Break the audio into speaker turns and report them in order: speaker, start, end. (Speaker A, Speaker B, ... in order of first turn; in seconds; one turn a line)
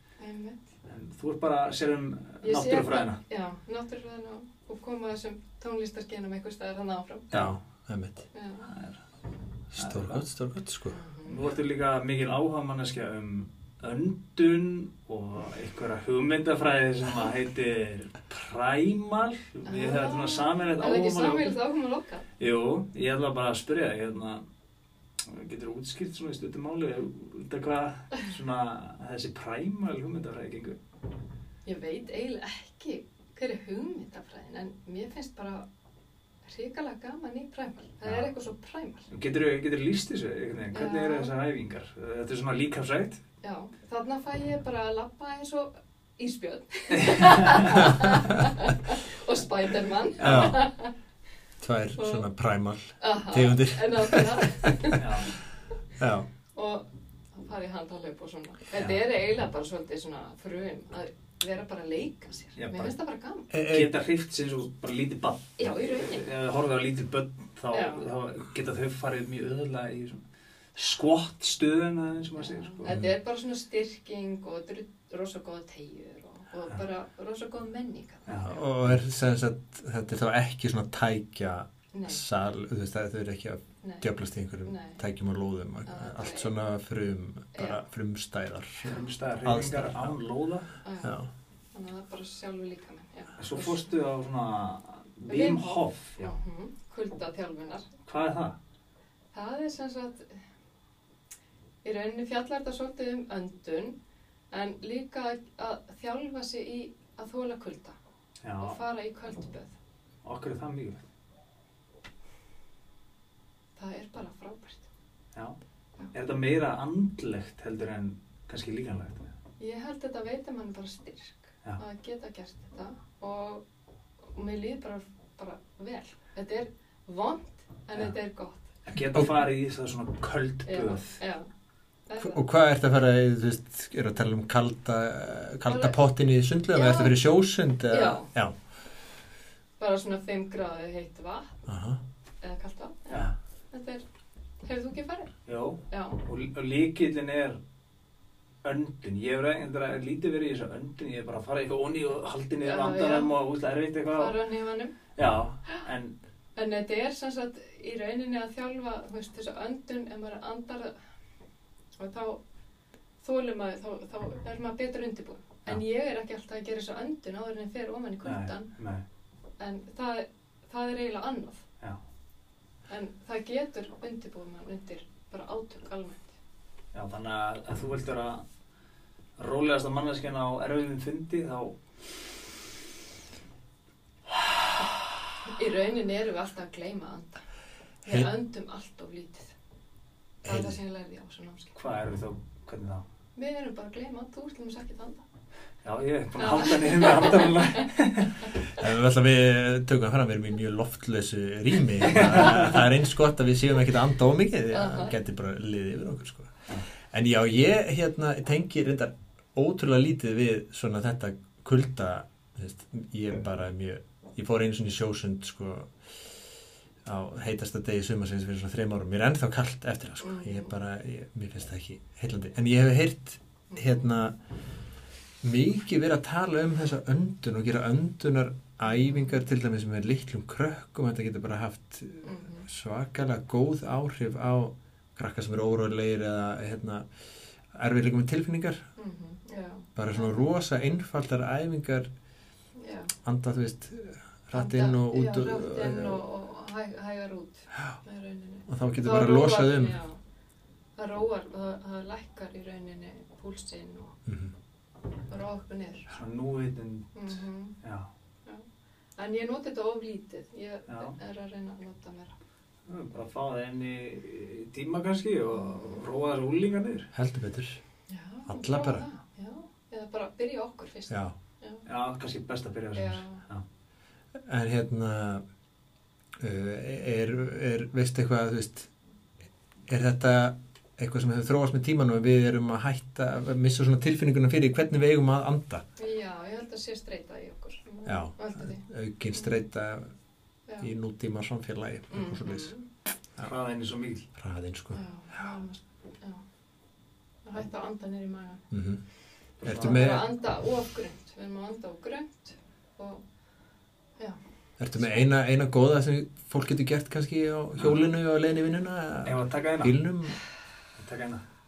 Speaker A: 0.2-0.6
Speaker B: 0.9-3.2
Speaker A: 2.4-7.3
Speaker C: 7.3-8.2
Speaker A: 8.3-8.7
Speaker B: 8.7-9.0
Speaker C: 9.7-11.0
Speaker B: 9.8-10.2
Speaker A: 10.9-11.4
Speaker B: 11.2-21.6
Speaker A: 19.7-22.3
Speaker B: 22.4-24.4
Speaker B: 25.2-30.8
Speaker A: 31.6-35.7
Speaker A: 36.5-39.1
Speaker B: 39.1-43.2
Speaker A: 40.7-41.3
Speaker A: 43.4-50.9
Speaker B: 47.0-47.8
Speaker B: 50.2-50.6
Speaker C: 50.2-50.7
Speaker C: 51.6-54.5
Speaker A: 52.0-52.3
Speaker A: 53.0-55.3
Speaker B: 55.0-55.4
Speaker C: 56.0-56.3
Speaker A: 56.5-63.5
Speaker B: 62.6-62.9
Speaker C: 63.5-64.0
Speaker B: 63.7-70.2
Speaker A: 65.6-66.3
Speaker A: 67.7-68.0
Speaker B: 70.8-73.0
Speaker A: 72.4-78.7
Speaker B: 78.3-79.0
Speaker C: 78.5-90.2
Speaker A: 81.9-82.2
Speaker A: 83.8-84.1
Speaker A: 84.7-85.0
Speaker A: 85.9-86.5
Speaker A: 87.5-87.8
Speaker B: 88.8-90.7
Speaker A: 90.8-91.2
Speaker C: 91.0-91.3
Speaker A: 91.7-93.9
Speaker B: 93.4-96.4
Speaker A: 95.3-97.9
Speaker B: 98.1-98.6
Speaker A: 99.3-100.4
Speaker A: 101.8-104.0
Speaker A: 104.5-108.0
Speaker B: 108.4-108.8
Speaker A: 108.6-109.7
Speaker B: 110.2-111.0
Speaker A: 113.8-114.9
Speaker B: 116.1-119.3
Speaker A: 119.6-123.6
Speaker A: 124.3-128.7
Speaker B: 128.9-131.2
Speaker A: 130.7-131.5
Speaker A: 132.1-132.4
Speaker C: 132.2-138.5
Speaker A: 135.7-136.0
Speaker A: 136.7-137.2
Speaker A: 137.9-138.3
Speaker A: 139.8-141.6
Speaker C: 141.7-142.0
Speaker A: 142.4-144.0
Speaker A: 144.6-145.4
Speaker B: 145.5-147.6
Speaker A: 145.9-146.2
Speaker B: 148.6-154.4
Speaker A: 152.6-153.4
Speaker A: 154.1-155.0
Speaker B: 155.2-156.2
Speaker A: 156.6-160.9
Speaker A: 162.0-162.4
Speaker A: 163.2-168.7
Speaker B: 168.2-169.0
Speaker A: 169.6-171.6
Speaker A: 172.9-176.3
Speaker B: 176.9-178.4
Speaker B: 179.4-181.8
Speaker A: 185.4-187.4
Speaker A: 188.0-189.5
Speaker C: 190.4-190.8
Speaker A: 190.4-191.8
Speaker B: 191.8-193.0
Speaker A: 193.3-195.2
Speaker B: 195.8-198.5
Speaker A: 196.4-197.8
Speaker C: 198.8-215.9
Speaker B: 202.1-202.7
Speaker A: 204.7-205.2
Speaker C: 217.0-224.4
Speaker A: 220.2-220.7
Speaker A: 223.7-224.1
Speaker C: 225.4-237.1
Speaker A: 229.0-229.3
Speaker A: 232.2-232.7
Speaker C: 237.7-238.8
Speaker A: 239.0-240.5
Speaker C: 240.0-242.1
Speaker A: 242.8-243.1
Speaker C: 243.2-246.2
Speaker A: 244.5-250.2
Speaker C: 248.7-250.0
Speaker A: 251.0-254.2
Speaker C: 254.3-254.5
Speaker A: 255.3-256.1
Speaker B: 256.1-258.1
Speaker A: 257.1-257.8
Speaker A: 259.2-262.3
Speaker B: 260.9-261.2
Speaker B: 262.9-267.1
Speaker A: 265.5-266.1
Speaker C: 267.1-267.8
Speaker A: 268.1-271.9
Speaker C: 268.5-269.1
Speaker B: 271.9-273.6
Speaker A: 272.9-273.4
Speaker C: 274.5-275.4
Speaker C: 276.4-278.9
Speaker C: 279.9-285.8
Speaker A: 286.0-289.6
Speaker C: 288.1-290.1
Speaker C: 290.8-292.7
Speaker A: 292.1-292.9
Speaker B: 293.4-294.3
Speaker C: 294.4-295.0
Speaker A: 294.9-296.4
Speaker A: 297.4-298.6
Speaker C: 298.7-299.0
Speaker B: 299.6-300.0
Speaker C: 299.6-300.3
Speaker A: 299.7-303.2
Speaker C: 304.8-310.4
Speaker A: 305.0-305.2
Speaker B: 309.3-310.0
Speaker B: 311.0-311.4